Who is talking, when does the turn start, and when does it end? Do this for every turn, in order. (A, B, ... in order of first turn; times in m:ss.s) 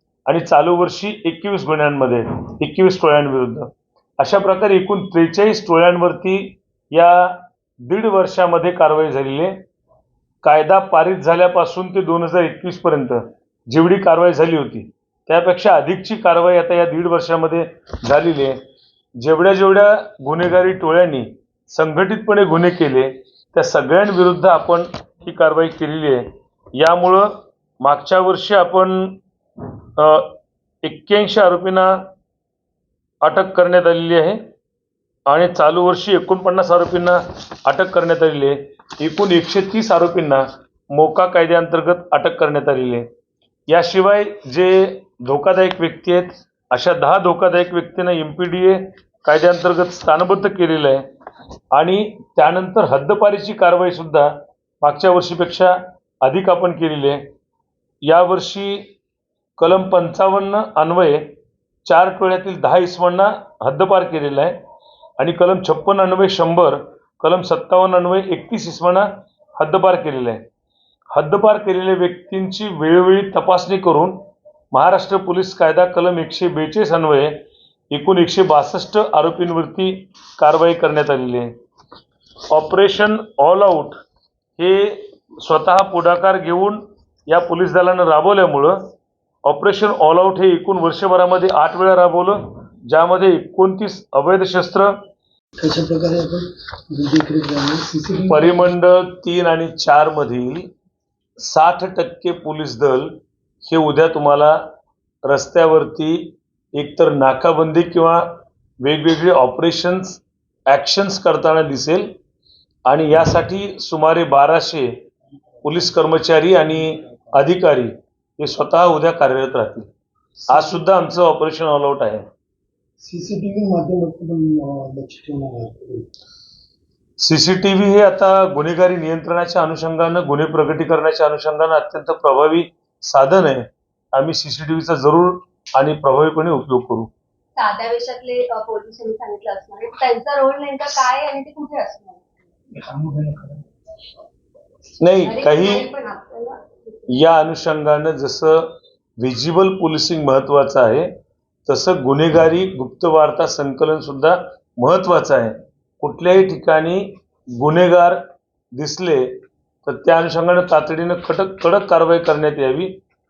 0:00.3-0:09.6 A
0:10.4-0:18.6 A
0:19.2-0:26.2 A
0:26.8-0:29.2 A
0:30.0-0:31.9 A
0:33.2-0:34.4 A
0:35.3-0:43.1 A
0:43.7-0:51.0 A
0:51.7-0:54.3 A
0:54.8-0:57.2 A
0:58.1-0:58.8 A
0:59.6-1:01.2 A
1:01.8-1:04.6 A
1:05.2-1:09.1 A
1:09.6-1:10.4 A
1:11.1-1:14.2 A
1:14.7-1:17.3 A
1:17.9-1:21.5 A
1:22.5-1:24.0 A
1:24.6-1:28.9 A
1:29.4-1:34.9 A
1:35.6-1:38.7 B
1:38.3-1:40.7 A
1:41.4-1:44.6 A
1:45.3-1:48.3 A
1:48.8-1:52.1 A
1:52.9-1:54.9 A
1:55.6-1:59.9 A
2:00.5-2:02.2 A
2:00.5-2:00.8 B
2:03.0-2:06.1 B
2:07.2-2:17.1 A
2:17.6-2:22.2 C
2:22.7-2:23.6 B
2:25.0-2:25.9 A
2:25.2-2:26.6 C
2:27.1-2:28.7 A
2:29.2-2:31.1 A
2:31.7-2:38.2 A
2:38.8-2:39.3 A
2:39.8-2:42.9 A